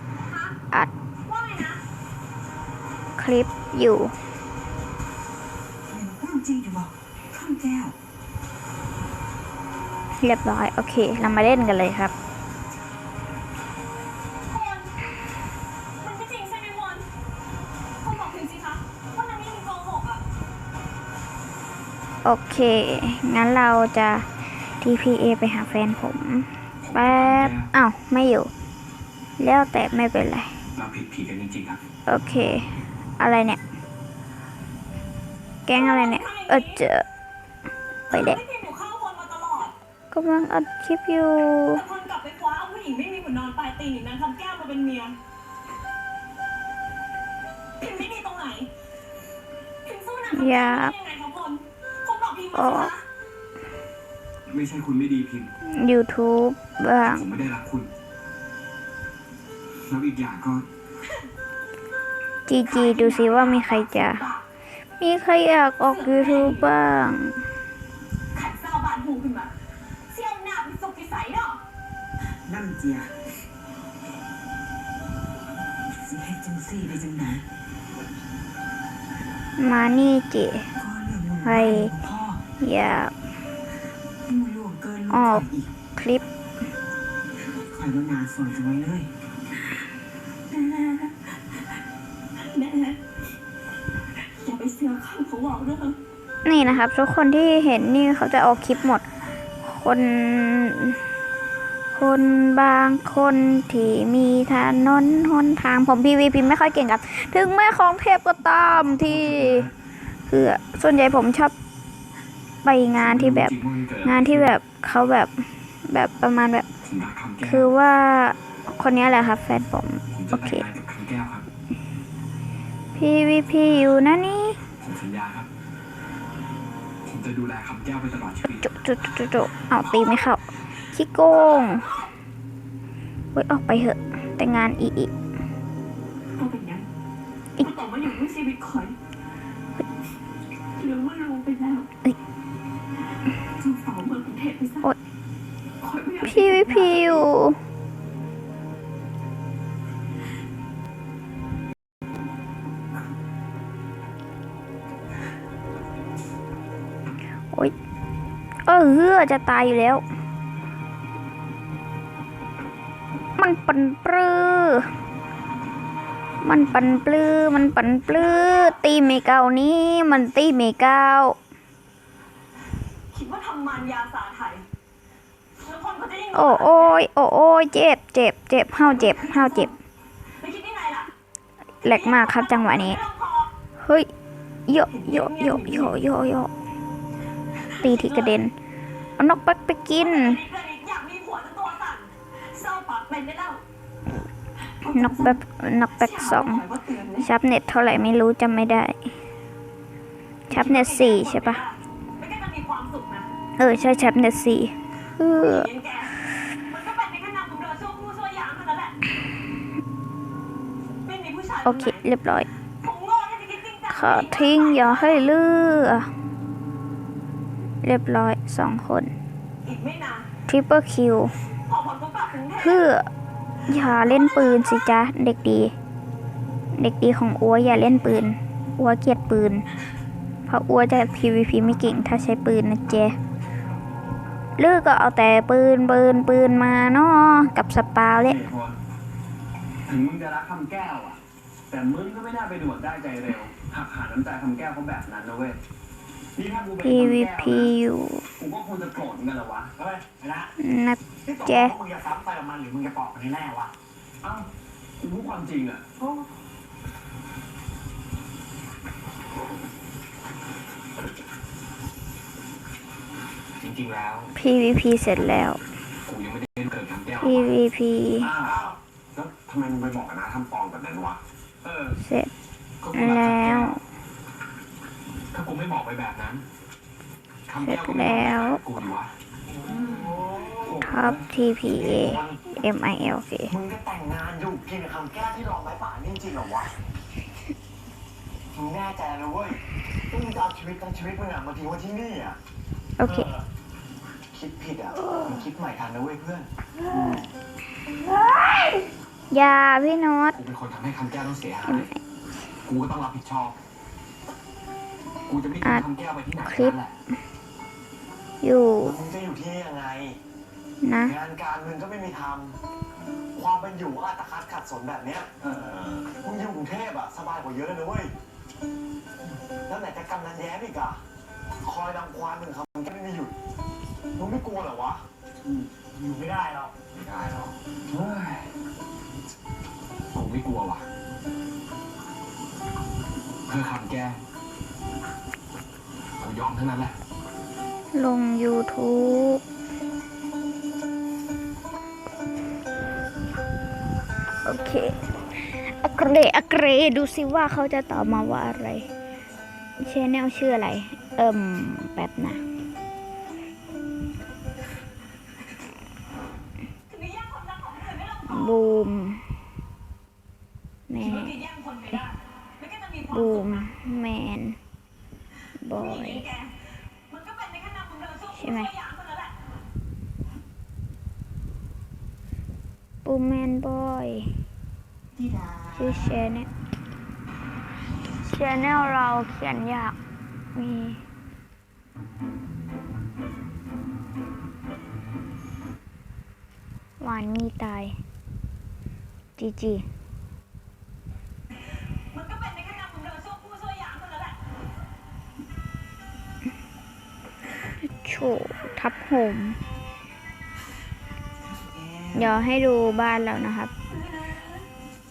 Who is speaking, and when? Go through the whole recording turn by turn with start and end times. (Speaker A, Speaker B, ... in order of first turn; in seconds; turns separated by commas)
Speaker A: 0.3-0.6, Speaker A: 1.2-1.8, Speaker B: 3.2-4.1, Speaker C: 5.9-8.0, Speaker B: 10.2-12.1, Speaker A: 14.5-14.9, Speaker A: 16.0-17.1, Speaker A: 18.0-20.2, Speaker B: 22.2-28.5, Speaker D: 26.9-27.7, Speaker B: 29.4-30.6, Speaker D: 30.8-31.8, Speaker B: 32.1-33.6, Speaker B: 35.7-37.1, Speaker A: 35.7-36.8, Speaker A: 38.1-39.7, Speaker B: 38.1-38.4, Speaker B: 40.1-41.8, Speaker A: 41.7-45.2, Speaker A: 47.8-48.7, Speaker A: 49.9-53.0, Speaker B: 50.3-51.0, Speaker B: 52.5-52.9, Speaker D: 54.5-55.5, Speaker B: 55.6-57.3, Speaker D: 57.0-57.9, Speaker D: 59.9-60.7, Speaker B: 62.5-64.2, Speaker A: 62.6-64.4, Speaker B: 65.0-67.4, Speaker A: 65.8-66.7, Speaker A: 68.3-69.6, Speaker A: 70.1-71.6, Speaker C: 72.2-73.2, Speaker C: 75.9-77.5, Speaker B: 79.6-80.7, Speaker C: 80.8-82.4, Speaker B: 81.4-81.9, Speaker B: 82.6-83.1, Speaker C: 84.2-85.7, Speaker B: 85.1-86.2, Speaker C: 87.4-89.1, Speaker A: 90.5-91.2, Speaker A: 92.4-93.0, Speaker A: 94.2-96.0, Speaker B: 96.5-99.0, Speaker B: 99.6-101.0, Speaker B: 101.9-109.7, Speaker D: 108.9-109.7, Speaker B: 110.3-111.5, Speaker B: 112.6-116.7, Speaker D: 112.9-114.5, Speaker D: 116.8-117.7, Speaker B: 117.4-120.6, Speaker D: 120.1-121.5, Speaker B: 123.0-124.6, Speaker D: 124.8-125.5, Speaker D: 127.1-128.7, Speaker B: 128.6-131.9, Speaker A: 129.9-130.3, Speaker A: 131.4-132.1, Speaker B: 133.3-135.1, Speaker A: 136.3-136.9, Speaker A: 137.6-139.0, Speaker A: 140.8-141.9, Speaker A: 143.6-144.8, Speaker A: 145.8-147.2, Speaker B: 146.2-147.6, Speaker B: 158.7-160.0, Speaker B: 163.4-164.9, Speaker B: 166.4-171.4, Speaker A: 168.1-168.8, Speaker A: 173.1-174.7, Speaker A: 175.6-177.1, Speaker B: 176.3-179.7, Speaker A: 178.8-179.7, Speaker A: 180.4-181.1, Speaker B: 181.8-183.0, Speaker A: 181.8-183.5, Speaker B: 183.8-184.1, Speaker B: 184.7-186.5, Speaker A: 184.9-185.9, Speaker A: 187.6-188.4, Speaker B: 187.8-188.6, Speaker B: 189.2-190.4, Speaker A: 189.9-193.6, Speaker A: 194.8-195.4, Speaker B: 194.9-196.6, Speaker A: 196.0-197.3, Speaker B: 197.2-199.1, Speaker B: 200.5-201.6, Speaker A: 200.5-203.3, Speaker B: 203.6-205.7, Speaker A: 205.2-209.0, Speaker A: 211.0-212.0, Speaker B: 211.6-212.5, Speaker A: 212.8-215.3, Speaker B: 213.9-216.1, Speaker B: 217.8-219.1, Speaker A: 219.6-220.3, Speaker B: 220.5-221.3, Speaker A: 221.7-222.9, Speaker B: 222.6-223.1, Speaker B: 223.7-225.7, Speaker B: 226.7-229.7, Speaker B: 230.5-233.2, Speaker B: 234.6-238.4, Speaker D: 238.2-238.8, Speaker D: 239.9-245.6, Speaker D: 246.4-247.7, Speaker B: 246.8-248.3, Speaker D: 248.4-249.8, Speaker E: 249.8-250.5, Speaker B: 250.6-251.8, Speaker E: 251.2-253.7, Speaker D: 254.2-254.5, Speaker D: 255.0-255.9, Speaker D: 263.6-264.3, Speaker B: 264.4-265.6, Speaker D: 266.1-267.6, Speaker B: 267.2-268.3, Speaker D: 268.2-272.0, Speaker E: 268.4-268.8, Speaker B: 272.0-272.3, Speaker D: 272.8-273.8, Speaker B: 272.9-273.8, Speaker D: 275.3-276.5, Speaker D: 277.5-279.1, Speaker B: 277.6-278.6, Speaker D: 279.7-281.3, Speaker E: 280.0-280.8, Speaker B: 280.8-283.5, Speaker E: 281.7-282.5, Speaker E: 283.5-286.7, Speaker E: 288.5-292.4, Speaker B: 293.0-293.3, Speaker E: 293.0-293.5, Speaker E: 294.3-296.5, Speaker B: 296.9-297.2, Speaker B: 299.3-300.4, Speaker D: 300.3-301.9, Speaker D: 302.6-303.6, Speaker D: 305.3-306.9, Speaker B: 306.4-306.7, Speaker B: 308.4-309.0, Speaker E: 308.8-310.2, Speaker B: 310.8-311.1, Speaker E: 311.0-312.6, Speaker E: 313.3-318.1, Speaker D: 315.4-316.1, Speaker E: 319.7-321.0, Speaker E: 321.6-323.4, Speaker E: 324.2-325.1, Speaker D: 325.4-325.9, Speaker E: 325.9-326.8, Speaker D: 326.8-328.5, Speaker D: 330.1-330.9, Speaker D: 333.5-334.2, Speaker D: 336.2-337.0, Speaker B: 337.9-339.4, Speaker B: 344.4-348.9, Speaker B: 349.8-352.4, Speaker A: 356.9-358.5, Speaker B: 358.3-359.3, Speaker B: 360.9-361.4, Speaker A: 361.0-363.6, Speaker B: 363.1-364.6, Speaker B: 365.6-366.3, Speaker A: 365.7-366.6, Speaker A: 367.1-369.4, Speaker B: 368.3-368.7, Speaker B: 373.1-374.4, Speaker B: 375.7-376.5, Speaker B: 378.2-379.9, Speaker B: 380.6-381.0, Speaker B: 387.0-388.0, Speaker B: 389.4-389.9, Speaker A: 392.1-394.4, Speaker B: 397.8-399.6, Speaker C: 401.4-402.5, Speaker B: 402.1-403.7, Speaker A: 403.9-404.6